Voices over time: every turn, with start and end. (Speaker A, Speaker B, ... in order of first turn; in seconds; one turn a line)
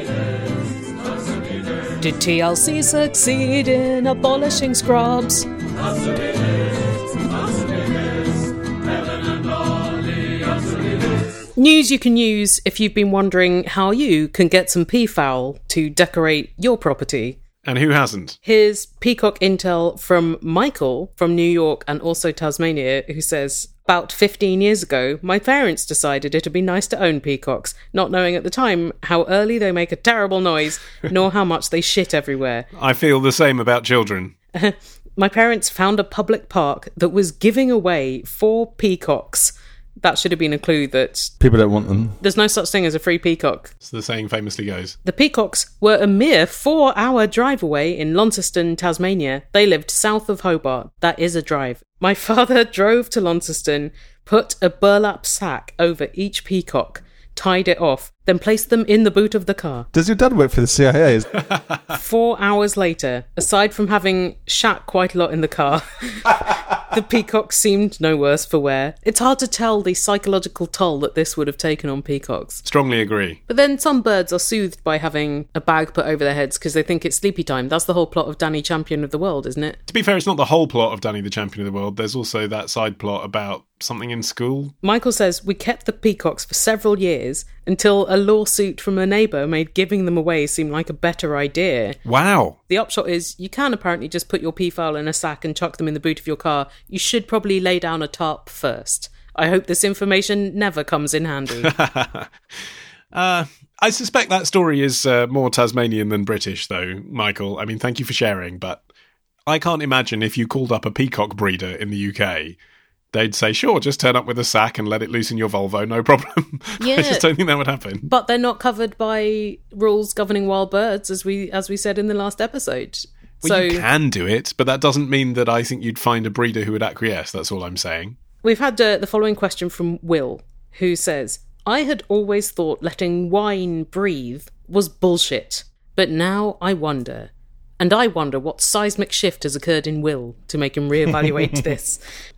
Speaker A: 2.0-5.5
Speaker A: 11.6-17.4
Speaker B: 17.6-18.4
Speaker A: 18.4-32.7
Speaker B: 32.7-34.3
Speaker A: 34.5-41.3
Speaker C: 41.4-42.2
Speaker A: 42.2-43.7
Speaker B: 43.8-45.0
Speaker A: 45.0-59.9
Speaker C: 59.9-61.3
Speaker B: 61.5-61.8
Speaker A: 61.9-72.6
Speaker B: 72.7-73.4
Speaker A: 73.5-79.8
Speaker B: 79.9-84.7
Speaker A: 84.8-92.0
Speaker B: 92.0-92.6
Speaker A: 92.7-101.7
Speaker B: 101.6-102.3
Speaker B: 103.1-108.8
Speaker B: 109.5-112.6
Speaker B: 113.1-118.1
Speaker A: 116.8-117.3
Speaker A: 118.1-123.9
Speaker B: 123.4-128.2
Speaker A: 128.4-142.0